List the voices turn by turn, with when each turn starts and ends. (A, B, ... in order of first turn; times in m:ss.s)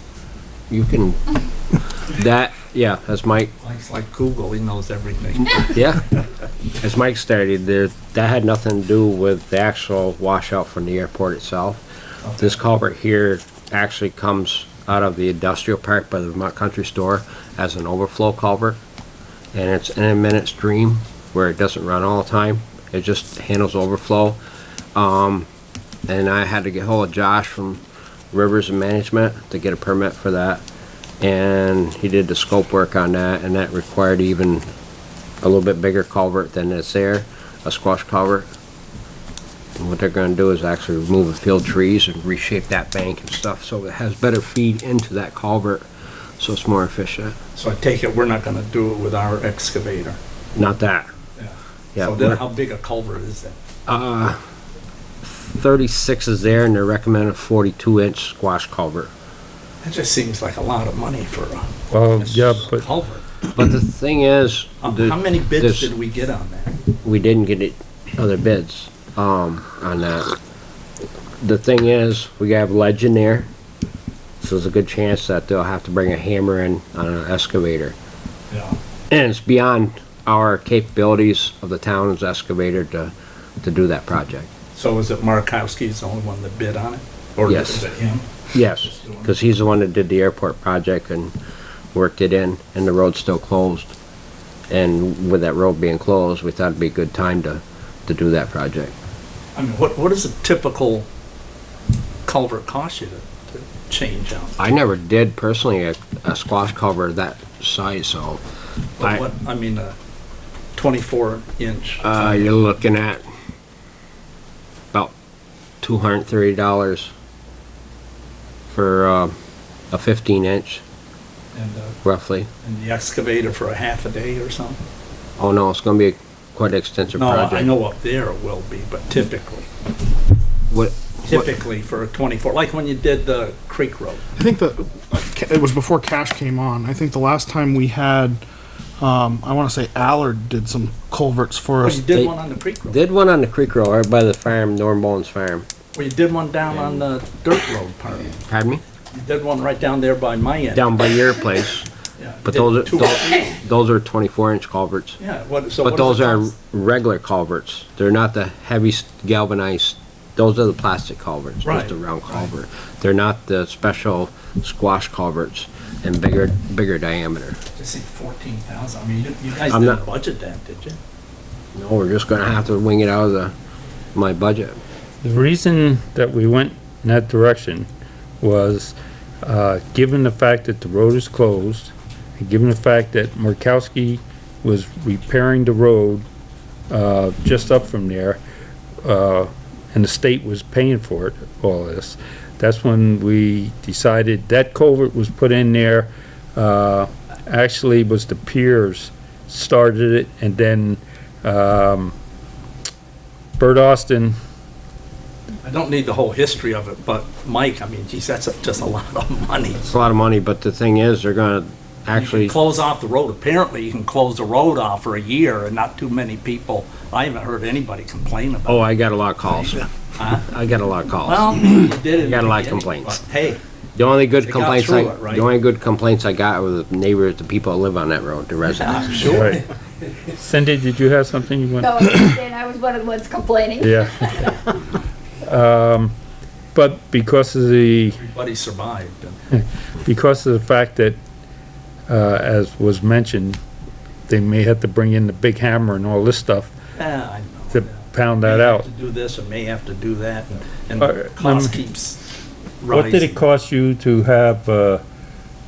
0:00.7-0:01.2 A
0:02.1-0:03.5 A
0:03.6-0:06.2 B
0:05.7-0:06.0 A
0:06.8-0:11.8 A
0:12.2-0:12.6 B
0:12.4-0:18.8 A
0:19.5-0:24.4 A
0:24.9-0:25.5 A
0:26.1-0:30.6 A
0:31.2-0:34.6 A
0:35.4-0:38.5 A
0:39.8-0:45.9 A
0:46.4-0:47.3 A
0:47.5-0:50.2 B
0:50.5-0:51.1 A
0:51.4-0:53.6 B
0:51.9-0:52.4 A
0:53.9-0:54.4 A
0:55.2-0:59.1 A
0:59.8-1:03.3 B
1:01.9-1:02.8 C
1:03.5-1:05.9 A
1:04.8-1:06.8 B
1:07.0-1:10.3 A
1:11.4-1:13.5 A
1:14.4-1:17.9 A
1:18.5-1:18.8 B
1:19.1-1:24.5 A
1:24.7-1:29.3 B
1:27.5-1:27.8 A
1:28.5-1:31.3 A
1:31.9-1:33.9 A
1:34.7-1:39.0 A
1:39.5-1:41.1 B
1:42.2-1:44.6 B
1:44.6-1:48.4 A
1:49.0-1:49.9 B
1:50.8-1:52.6 B
1:52.0-1:53.2 A
1:55.8-1:57.1 A
1:58.7-1:59.3 A
1:59.9-2:00.8 A
2:01.5-2:01.9 B
2:02.0-2:02.5 A
2:02.6-2:04.8 B
2:05.4-2:07.8 A
2:07.2-2:09.6 B
2:10.7-2:11.5 A
2:11.2-2:14.2 B
2:14.4-2:18.4 D
2:19.0-2:22.1 D
2:21.8-2:23.0 B
2:22.1-2:25.6 A
2:25.9-2:28.4 B
2:28.4-2:28.8 A
2:29.1-2:31.1 B
2:30.7-2:31.8 A
2:32.2-2:33.6 B
2:32.4-2:35.2 A
2:35.2-2:36.5 B
2:35.8-2:47.6 A
2:41.6-2:42.5 B
2:47.8-2:51.0 B
2:49.7-2:50.0 A
2:51.7-2:53.5 A
2:54.1-2:54.8 A
2:55.2-2:57.9 C
2:58.4-3:06.2 C
3:06.9-3:08.4 C
3:09.0-3:22.1 C
3:23.6-3:24.3 C
3:25.6-3:29.8 B
3:29.8-3:32.6 A
3:32.1-3:38.9 B
3:38.6-3:39.8 A
3:40.2-3:40.4 B
3:40.4-3:43.2 A
3:41.2-3:43.6 B
3:43.9-3:49.5 A
3:44.4-3:45.5 B
3:48.7-3:49.6 B
3:49.2-3:49.6 C
3:50.3-3:51.9 C
3:51.8-3:54.5 E
3:53.8-3:54.6 C
3:55.4-3:56.1 C
3:56.7-3:58.2 C
3:58.2-3:59.4 B
3:59.5-4:01.2 C
4:02.1-4:03.6 C
4:04.3-4:06.7 C
4:07.0-4:12.2 B
4:07.7-4:08.9 C
4:11.0-4:11.8 C
4:12.8-4:13.4 B
4:12.9-4:15.0 C